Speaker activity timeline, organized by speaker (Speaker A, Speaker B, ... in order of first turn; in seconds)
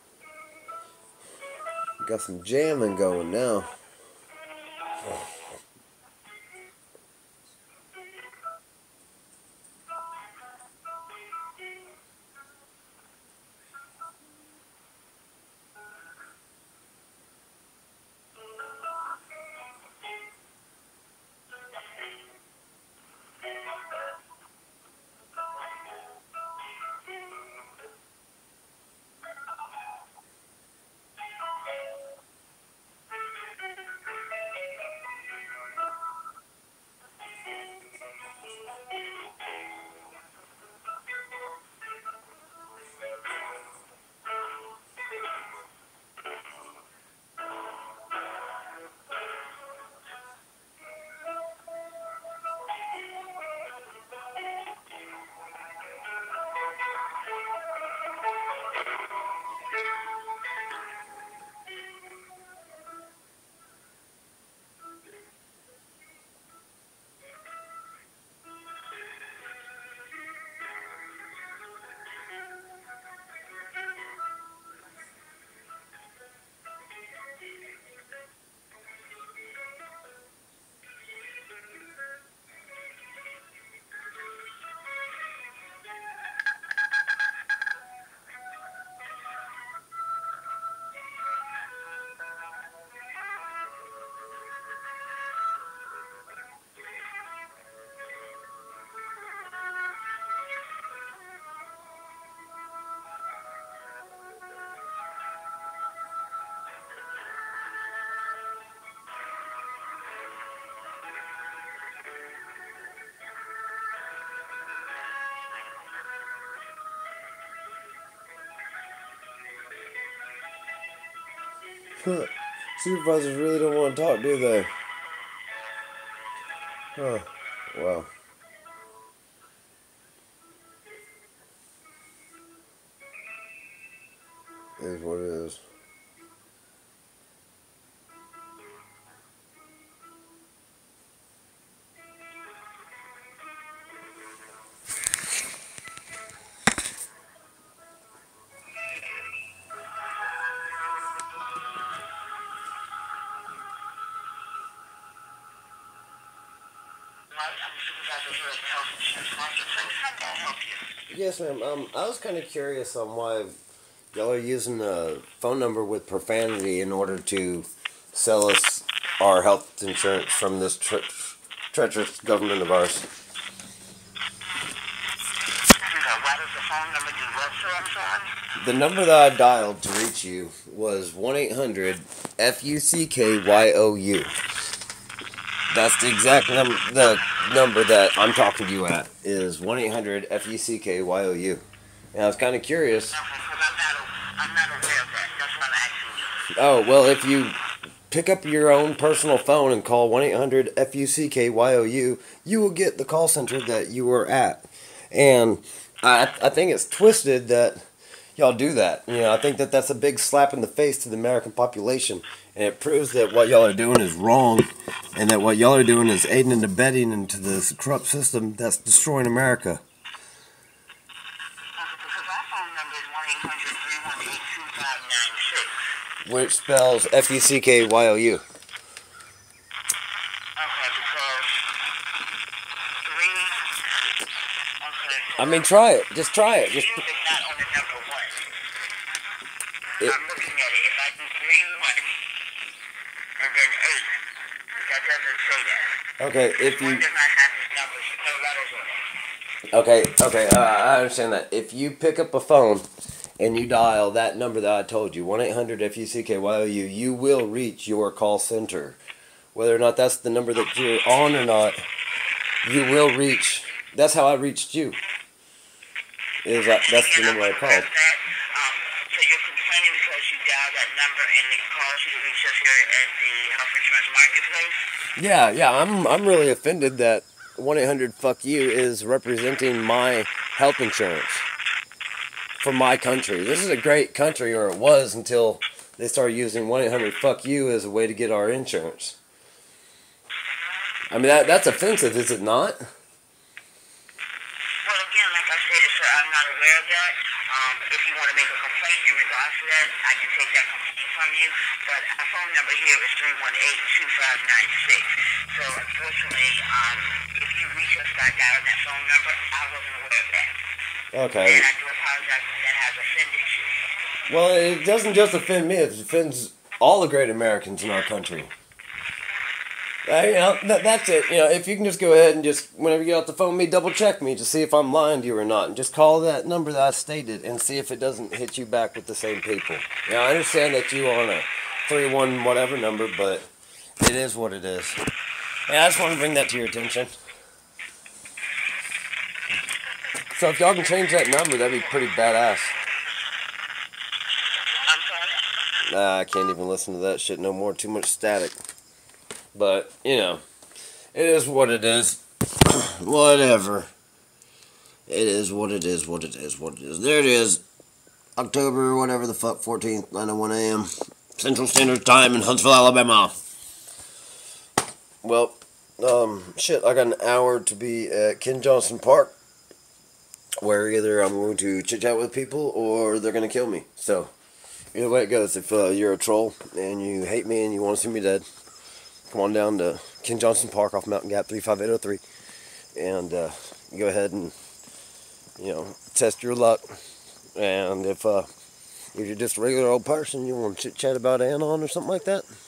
Speaker A: 2.0-3.7, 122.0-124.7, 127.0-128.1, 134.8-135.6, 161.1-163.6, 164.1-173.1, 178.6-184.3, 185.7-193.2, 196.6-197.6, 198.1-207.8, 208.3-219.8, 226.2-228.4, 235.4-237.0, 246.2-247.0, 249.7-252.9, 253.4-259.0, 259.5-261.8, 262.6-265.0, 266.4-267.9, 275.1-281.4, 282.6-289.2, 291.1-292.8, 311.1-311.7, 314.3-318.5, 320.0-333.5, 334.0-335.0, 335.7-337.1, 340.3-342.7, 345.9-348.6, 349.5-350.4, 351.1-353.9, 355.1-357.6, 358.4-363.4, 365.2-369.3, 370.6-374.3, 374.9-378.4, 379.3-382.2, 382.9-384.5, 385.6-387.0, 387.6-388.5, 389.1-392.4
Speaker B: 157.3-160.8, 175.8-178.3, 193.1-196.4, 221.8-225.7, 230.6-231.7, 233.0-233.7, 234.8-235.6, 236.7-238.4, 240.0-242.2, 243.4-244.2, 244.7-245.9, 246.7-249.1, 266.5-274.8, 294.8-310.6, 311.4-313.7, 344.8-345.4